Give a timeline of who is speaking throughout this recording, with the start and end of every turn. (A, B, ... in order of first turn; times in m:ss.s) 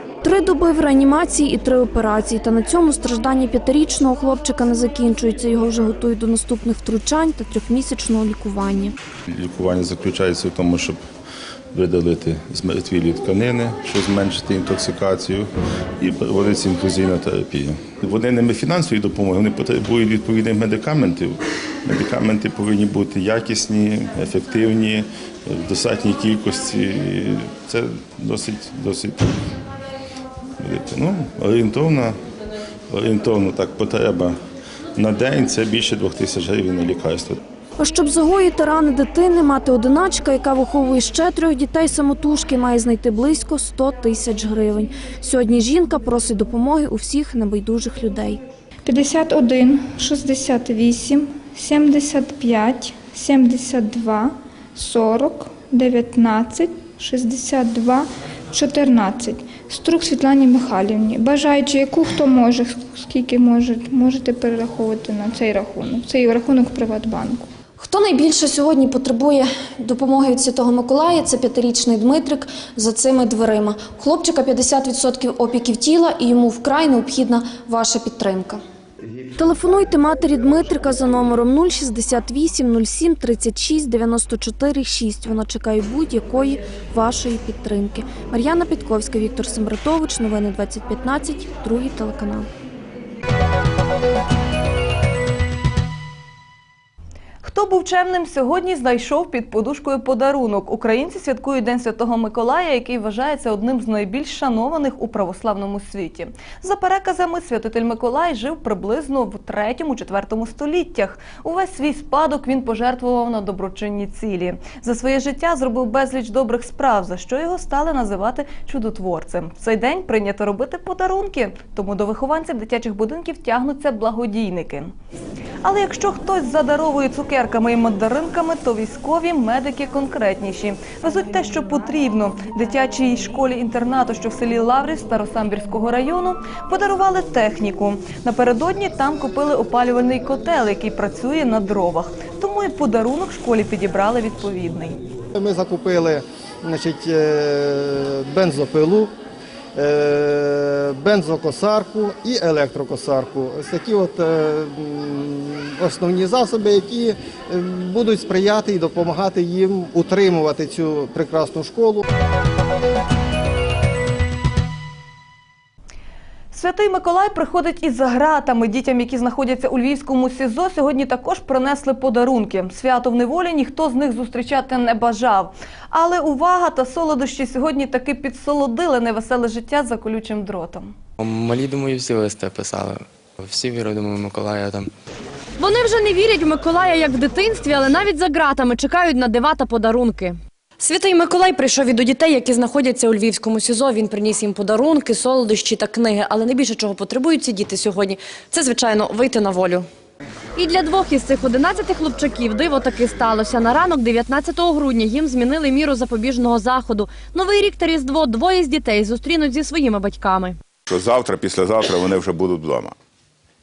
0:00.2-0:08.9 A
0:09.3-0:11.0 B
0:11.7-0:15.5 B
0:16.0-0:29.3 B
0:30.6-0:32.2 B
0:32.9-0:34.4 B
0:35.0-0:37.4 B
0:37.8-0:48.4 A
0:48.9-1:07.5 C
1:07.8-1:18.6 A
1:19.4-1:32.5 A
1:37.4-2:04.9 D
2:05.6-2:25.0 D
2:25.4-2:29.1 E
2:29.8-2:42.0 E
2:46.5-3:01.0 D
3:01.2-3:04.9 F
3:05.6-3:19.8 G
3:20.6-3:30.6 G
3:30.9-3:32.9 H